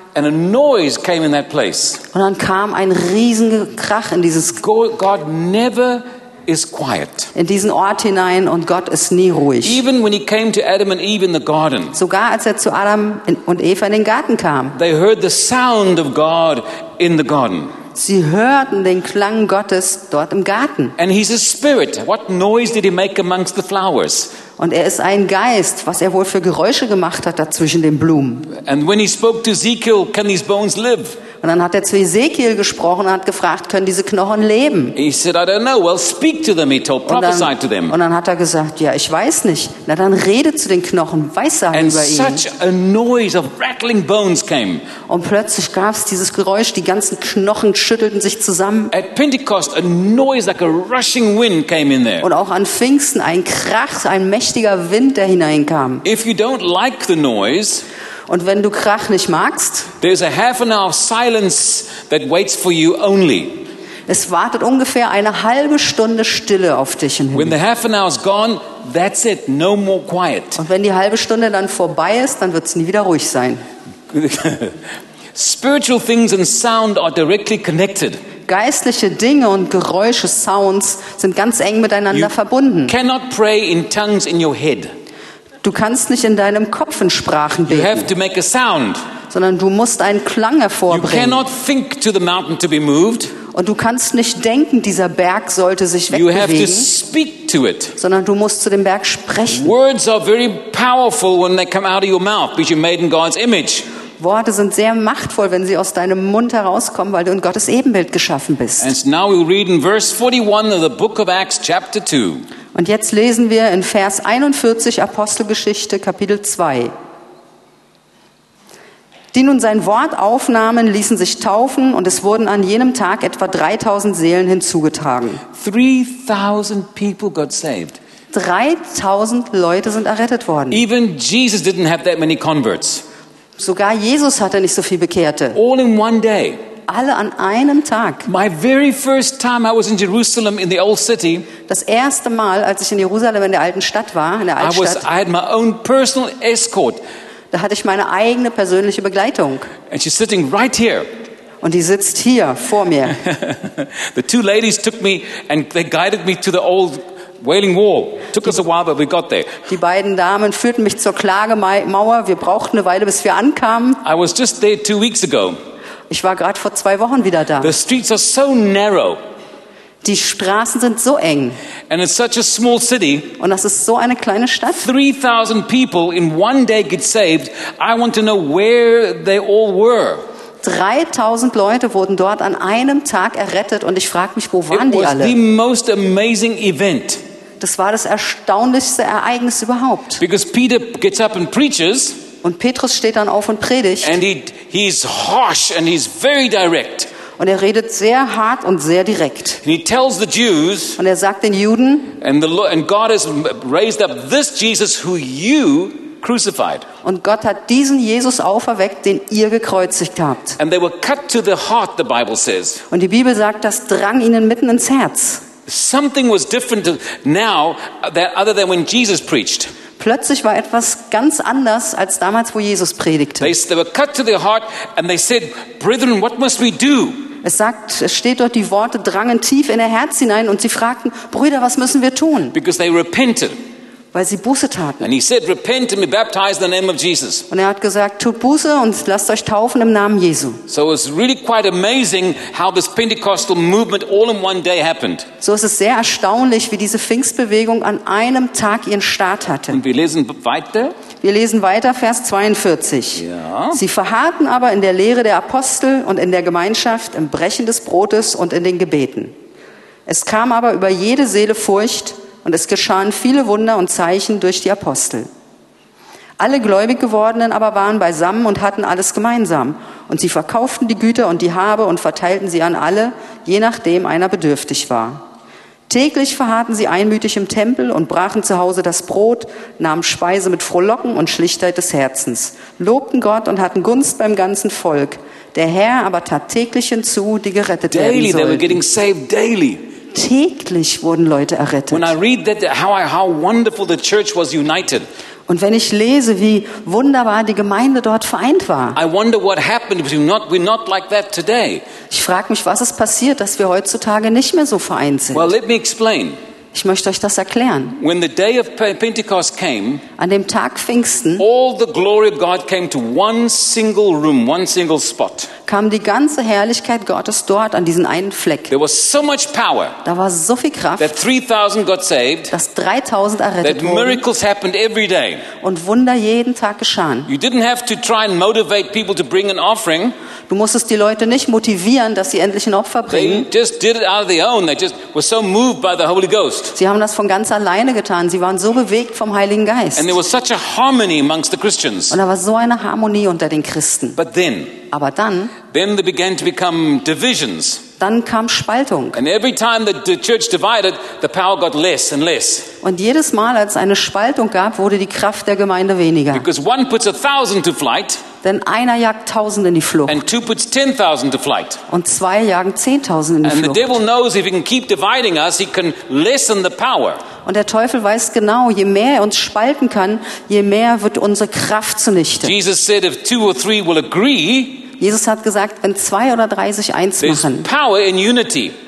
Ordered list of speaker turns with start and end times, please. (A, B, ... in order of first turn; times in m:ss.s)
0:00.1-0:02.0 A
0:02.1-0:04.6 B
0:04.6-0:07.3 A
0:07.3-0:09.8 B
0:09.6-0:12.0 A
0:11.9-0:14.8 B
0:14.7-0:17.8 A
0:17.9-0:20.9 B
0:21.0-0:24.3 A
0:24.6-0:28.5 B
0:28.5-0:31.2 A
0:31.4-0:35.0 B
0:35.0-0:38.0 A
0:37.0-0:42.4 B
0:41.7-0:44.8 A
0:45.1-0:48.9 B
0:48.9-0:52.3 A
0:52.2-0:56.0 B
0:56.0-0:57.8 A
0:58.3-0:59.9 B
1:00.0-1:03.6 A
1:04.1-1:07.6 B
1:07.3-1:10.6 A
1:10.6-1:13.6 B
1:14.1-1:14.8 A
1:15.3-1:18.2 A
1:18.5-1:22.9 B
1:22.9-1:24.9 A
1:25.6-1:28.1 B
1:27.7-1:29.0 A
1:29.3-1:31.4 B
1:30.9-1:33.4 A
1:33.5-1:36.9 B
1:36.1-1:38.0 A
1:38.0-1:39.7 B
1:39.5-1:43.8 A
1:44.2-1:48.9 B
1:48.8-1:52.4 A
1:52.7-1:56.9 B
1:59.3-2:05.4 B
2:05.5-2:08.0 A
2:08.3-2:10.8 B
2:10.7-2:13.0 A
2:13.6-2:15.6 B
2:15.5-2:16.6 A
2:16.9-2:18.2 B
2:18.2-2:21.5 A
2:21.7-2:25.0 B
2:24.6-2:27.0 A
2:27.5-2:29.7 B
2:29.9-2:31.1 A
2:31.6-2:33.2 B
2:33.2-2:39.7 A
2:39.7-2:44.0 B
2:44.0-2:45.6 A
2:46.1-2:47.7 B
2:47.6-2:49.2 A
2:50.0-2:51.6 B
2:51.9-2:53.3 A
2:53.4-2:54.8 B
2:54.7-3:00.2 A
3:00.6-3:05.4 B
3:04.7-3:07.2 A
3:07.6-3:10.2 B
3:10.2-3:12.2 A
3:12.4-3:14.2 B
3:14.0-3:17.1 A
3:17.4-3:19.6 B
3:19.6-3:21.0 A
3:21.0-3:22.2 B
3:22.2-3:26.8 A
3:27.0-3:30.6 B
3:30.6-3:32.8 A
3:32.9-3:35.4 B
3:35.7-3:39.7 A
3:40.0-3:43.5 B
3:43.4-3:47.3 A
3:47.4-3:52.5 B
3:52.5-3:53.6 A
3:54.1-3:55.1 B
3:55.0-3:57.5 A
3:57.5-4:00.6 B
4:00.7-4:05.3 A
4:05.4-4:09.8 B
4:09.7-4:11.0 A
4:11.2-4:19.3 B
4:13.2-4:13.8 A
4:20.1-4:25.3 B
4:26.4-4:35.2 B
4:35.9-4:48.8 B
4:47.9-4:49.8 A
4:50.1-4:52.1 B
4:51.9-4:55.0 A
4:55.5-4:59.0 B
4:58.9-5:01.8 A
5:02.1-5:05.5 B
5:05.3-5:06.4 A
5:06.7-5:07.9 B
5:07.9-5:10.0 A
5:10.2-5:11.4 B
5:11.4-5:15.5 A
5:15.7-5:18.7 B
5:18.7-5:20.0 A
5:20.0-5:21.2 B
5:21.0-5:22.5 A
5:22.5-5:24.2 B
5:23.6-5:25.5 A
5:25.6-5:27.3 B
5:27.2-5:30.1 A
5:30.5-5:33.5 B
5:33.1-5:36.7 A
5:36.7-5:40.2 B
5:40.0-5:42.2 A
5:42.1-5:44.2 B
5:44.2-5:44.8 A
5:44.9-5:45.5 B
5:45.7-5:47.8 A
5:48.0-5:49.2 B
5:49.1-5:52.7 A
5:52.8-5:56.4 B
5:56.3-5:58.2 A
5:58.4-6:00.2 B
6:00.1-6:01.8 A
6:01.9-6:04.0 B
6:03.4-6:07.2 A
6:07.4-6:12.5 B
6:12.4-6:14.9 A
6:14.9-6:17.6 B
6:17.2-6:18.7 A